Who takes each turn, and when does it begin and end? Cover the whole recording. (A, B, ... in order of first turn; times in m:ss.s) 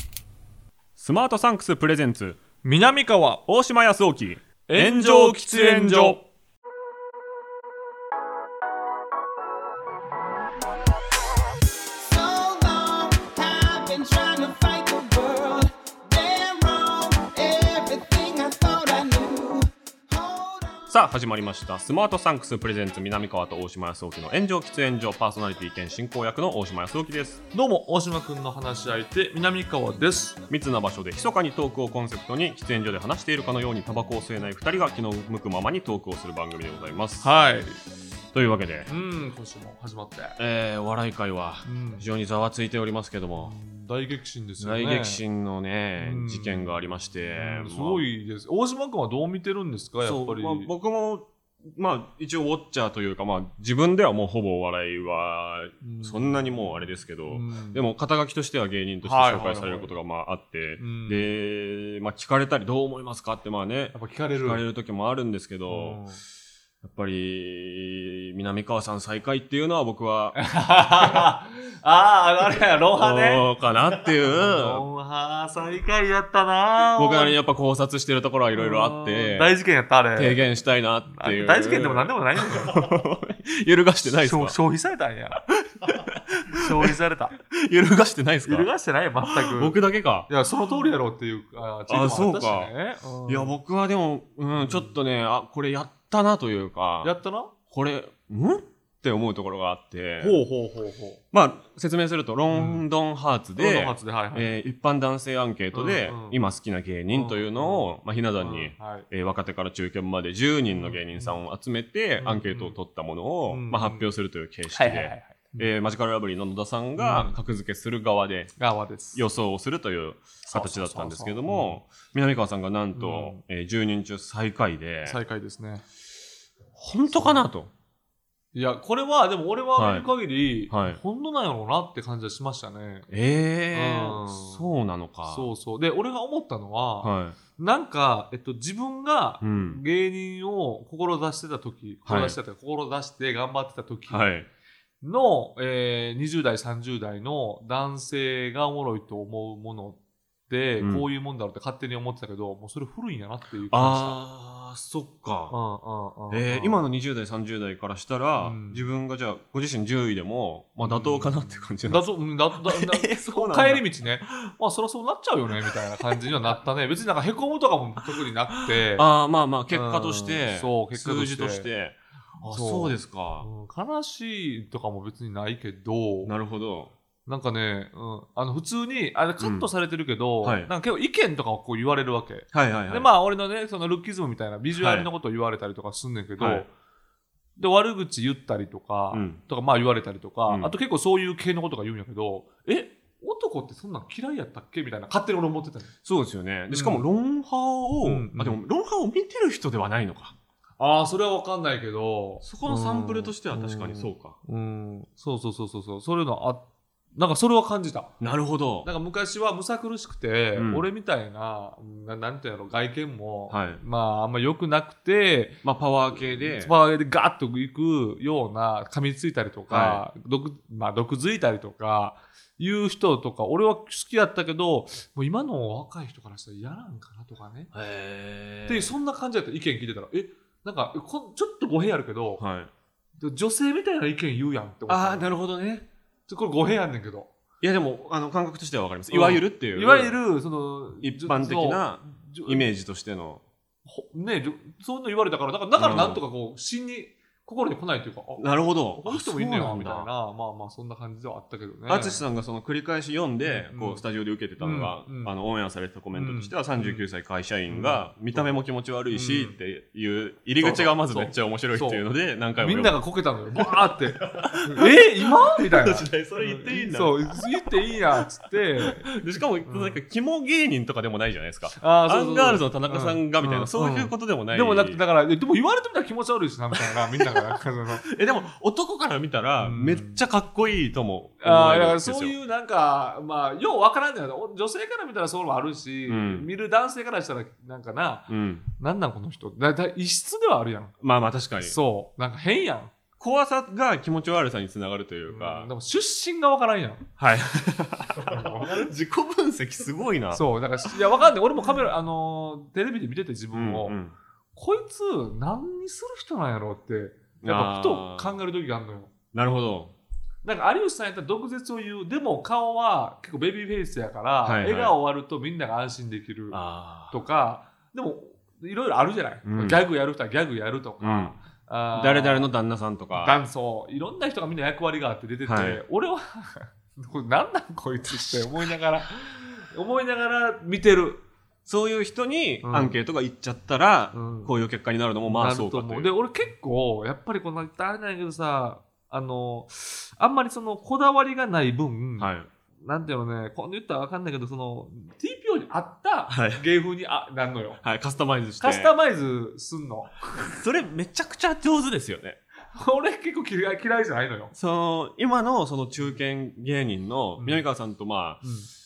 0:01.0-0:02.4 A
0:02.6-0:03.4 B
0:03.5-0:06.2 A
0:04.7-0:06.2 B
0:12.0-0:20.9 C
0:20.9-0:27.4 A
0:27.5-0:30.4 B
0:30.5-0:37.3 A
0:37.2-0:37.8 B
0:38.3-0:38.9 A
0:38.9-0:40.4 B
0:40.4-0:43.5 A
0:41.6-0:42.0 B
0:43.4-0:45.2 B
0:44.6-0:48.0 A
0:46.0-0:50.7 B
0:50.0-1:06.0 A
0:55.8-0:57.8 B
0:59.0-0:59.9 B
1:00.8-1:01.3 B
1:03.9-1:04.6 B
1:05.7-1:06.2 B
1:06.8-1:10.4 A
1:10.4-1:17.4 B
1:13.0-1:14.8 A
1:17.0-1:19.5 A
1:18.5-1:20.4 B
1:20.1-1:24.6 A
1:21.1-1:22.8 B
1:24.1-1:25.4 B
1:25.8-1:27.0 A
1:26.5-1:27.4 B
1:27.5-1:28.7 A
1:28.4-1:33.5 B
1:29.2-1:30.3 A
1:31.9-1:32.7 A
1:33.3-1:37.1 A
1:34.6-1:35.0 B
1:37.0-1:37.5 B
1:37.7-1:40.4 A
1:40.2-1:41.2 B
1:41.3-1:58.5 A
1:42.5-1:42.8 B
1:43.6-1:44.5 B
1:45.7-1:46.4 B
1:47.1-1:47.9 B
1:48.4-1:49.1 B
1:50.7-1:51.4 B
1:52.2-1:52.8 B
1:53.5-1:54.1 B
1:54.7-1:55.7 B
1:57.0-1:57.4 B
1:58.6-1:59.2 B
1:59.1-2:05.2 A
2:00.5-2:01.8 B
2:02.9-2:03.4 B
2:05.0-2:05.8 B
2:06.8-2:07.7 A
2:07.1-2:07.5 B
2:08.5-2:13.1 B
2:09.7-2:10.1 A
2:10.7-2:11.0 A
2:13.1-2:15.5 A
2:13.7-2:14.7 B
2:15.2-2:24.3 B
2:17.0-2:17.4 A
2:19.4-2:19.8 A
2:22.0-2:22.4 A
2:24.1-2:24.5 A
2:25.0-2:34.2 B
2:30.8-2:31.1 A
2:33.7-2:35.6 A
2:35.5-2:36.8 B
2:36.3-2:44.5 A
2:38.4-2:38.8 B
2:40.8-2:49.1 B
2:48.6-2:53.4 A
2:49.7-2:51.7 B
2:52.4-2:56.3 B
2:56.2-2:56.9 A
2:57.2-3:06.7 B
2:59.4-2:59.7 A
3:00.4-3:00.7 A
3:02.5-3:03.1 A
3:04.7-3:05.1 A
3:06.4-3:06.7 A
3:07.6-3:15.9 B
3:09.1-3:09.4 A
3:10.5-3:10.7 A
3:16.0-3:20.3 A
3:16.7-3:17.1 B
3:18.0-3:18.6 B
3:20.8-3:28.1 B
3:22.4-3:24.4 A
3:28.2-3:28.9 A
3:28.8-3:47.7 B
3:30.5-3:30.9 A
3:33.5-3:33.8 A
3:35.6-3:36.7 A
3:39.7-3:40.0 A
3:47.7-3:48.9 A
3:48.6-3:52.4 B
3:52.4-3:52.7 A
3:53.2-3:55.3 B
3:54.9-3:55.8 A
3:56.3-3:57.3 B
3:57.6-4:00.2 A
3:59.1-4:02.7 B
4:01.0-4:03.4 A
4:03.8-4:12.2 B
4:05.8-4:06.2 A
4:08.4-4:10.1 A
4:11.9-4:23.0 A
4:13.4-4:14.0 B
4:14.6-4:15.3 B
4:16.1-4:17.0 B
4:17.7-4:18.6 B
4:19.1-4:19.6 B
4:20.6-4:29.1 B
4:23.5-4:28.3 A
4:28.8-4:35.0 A
4:29.6-4:30.0 B
4:31.7-4:38.1 B
4:36.7-4:42.3 A
4:39.6-4:40.2 B
4:41.4-4:51.0 B
4:46.1-4:46.5 A
4:48.3-4:48.6 A
4:51.0-4:51.8 A
4:51.6-4:52.9 B
4:53.2-4:55.7 A
4:55.3-4:57.1 B
4:57.2-5:00.9 A
4:58.2-4:58.9 B
5:00.3-5:04.0 B
5:03.5-5:04.1 A
5:04.6-5:09.1 B
5:07.4-5:08.4 A
5:09.3-5:09.9 A
5:10.4-5:22.5 B
5:14.4-5:14.9 A
5:16.5-5:17.2 A
5:19.4-5:19.8 A
5:21.0-5:21.4 A
5:21.9-5:23.4 A
5:23.1-5:31.2 B
5:25.4-5:25.8 A
5:31.6-5:36.1 A
5:32.6-5:33.0 B
5:34.1-5:34.6 B
5:35.2-5:42.3 B
5:42.2-5:42.5 A
5:42.8-5:47.8 B
5:46.3-5:46.6 A
5:47.8-5:48.9 A
5:48.6-5:50.5 B
5:50.4-5:52.4 A
5:52.7-5:54.5 B
5:54.5-5:58.4 A
5:57.4-5:57.6 B
5:58.4-5:58.7 B